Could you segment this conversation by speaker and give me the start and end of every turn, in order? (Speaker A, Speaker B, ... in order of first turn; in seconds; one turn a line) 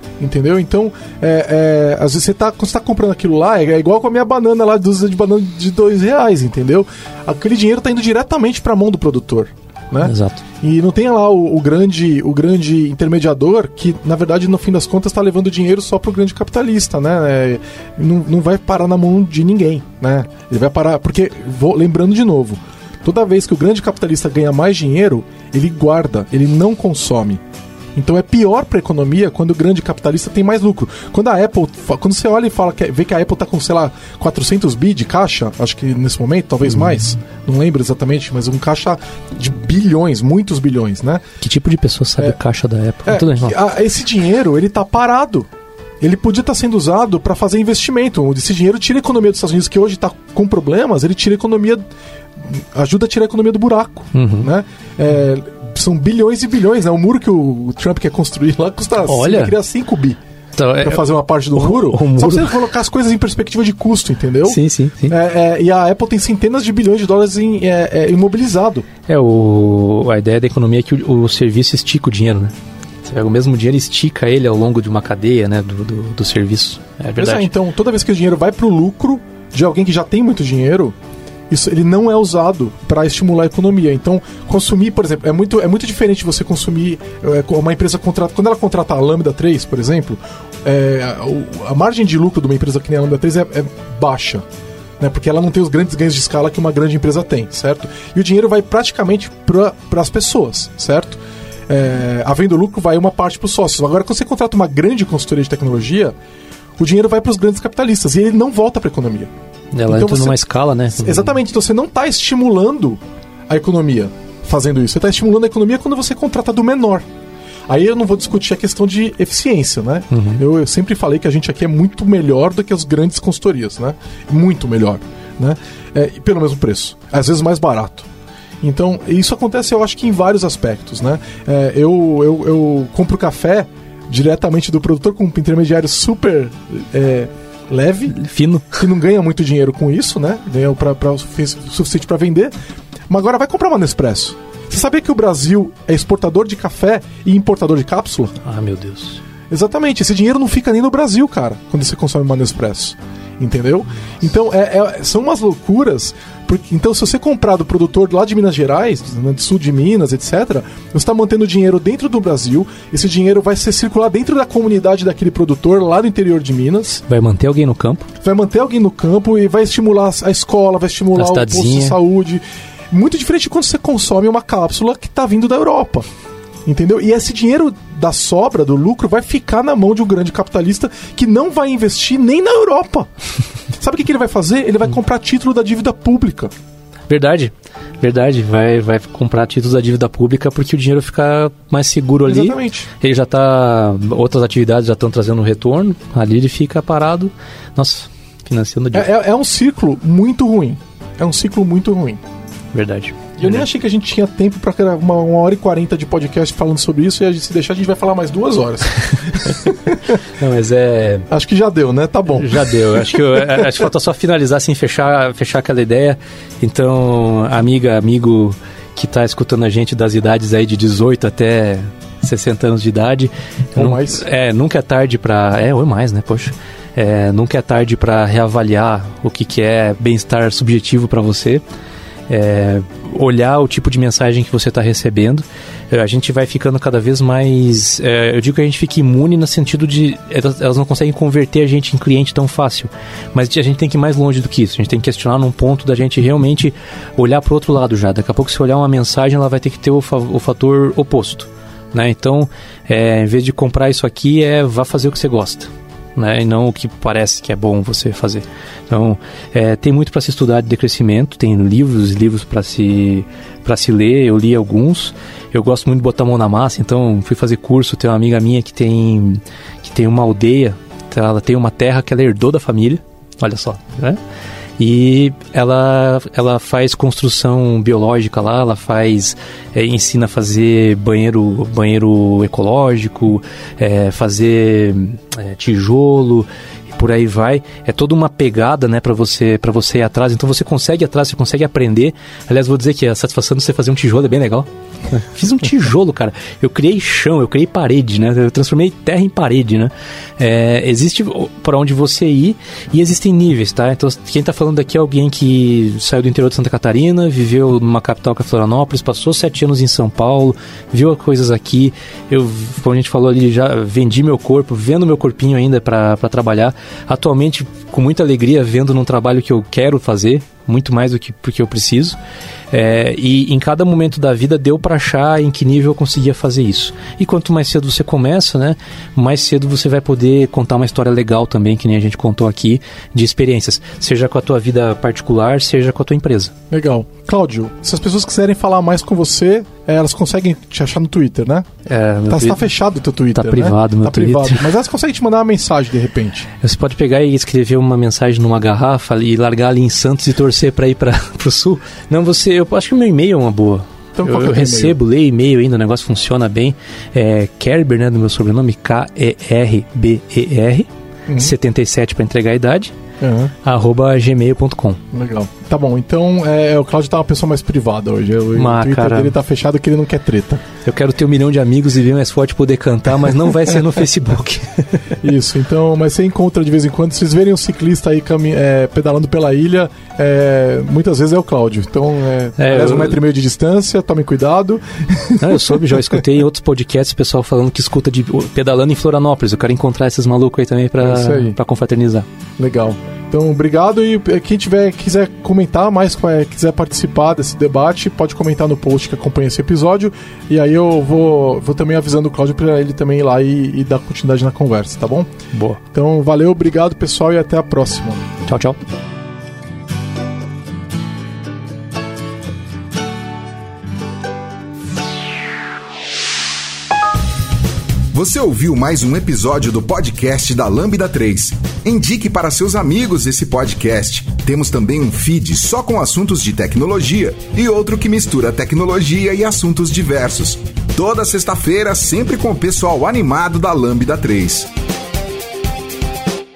Speaker A: 0.2-27.4
Speaker B: 10.0-10.4
Speaker A: 27.9-41.2
Speaker B: 41.4-43.5
Speaker A: 43.0-45.5
Speaker A: 46.0-51.8
Speaker A: 52.4-60.2
Speaker B: 54.1-54.5
Speaker B: 59.0-59.5
Speaker B: 60.6-61.0
Speaker A: 60.8-68.9
Speaker B: 61.5-62.6
Speaker B: 64.5-65.2
Speaker B: 69.1-77.5
Speaker A: 77.2-80.9
Speaker A: 81.5-94.4
Speaker A: 95.0-106.1
Speaker A: 106.8-109.3
Speaker B: 109.7-111.4
Speaker A: 109.9-110.4
Speaker A: 111.0-117.1
Speaker A: 117.7-128.1
Speaker B: 120.1-120.4
Speaker A: 128.6-138.2
Speaker B: 138.1-138.8
Speaker A: 138.7-142.5
Speaker A: 143.1-148.4
Speaker B: 148.4-149.2
Speaker A: 149.5-167.0
Speaker B: 167.1-168.1
Speaker A: 168.2-176.0
Speaker B: 171.1-172.0
Speaker A: 176.6-183.1
Speaker A: 183.7-186.5
Speaker B: 187.1-199.1
Speaker A: 192.2-192.9
Speaker A: 198.9-202.2
Speaker B: 202.7-203.6
Speaker A: 203.4-210.2
Speaker B: 210.2-211.3
Speaker A: 211.3-213.7
Speaker B: 212.3-231.6
Speaker A: 223.8-224.2
Speaker B: 232.3-274.2
Speaker B: 274.8-322.2
Speaker B: 322.7-336.5
Speaker A: 336.7-341.7
Speaker B: 341.9-342.6
Speaker A: 342.3-346.5
Speaker B: 343.3-344.7
Speaker B: 346.6-362.9
Speaker A: 354.1-355.0
Speaker A: 361.3-361.5
Speaker A: 363.2-363.5
Speaker B: 363.6-365.0
Speaker A: 365.1-370.6
Speaker B: 368.5-369.3
Speaker B: 370.8-375.1
Speaker A: 375.2-386.2
Speaker B: 382.6-383.2
Speaker B: 385.4-392.2
Speaker A: 391.0-391.6
Speaker A: 392.6-405.3
Speaker B: 405.5-405.8
Speaker A: 405.9-408.2
Speaker B: 408.4-408.8
Speaker C: 418.1-434.7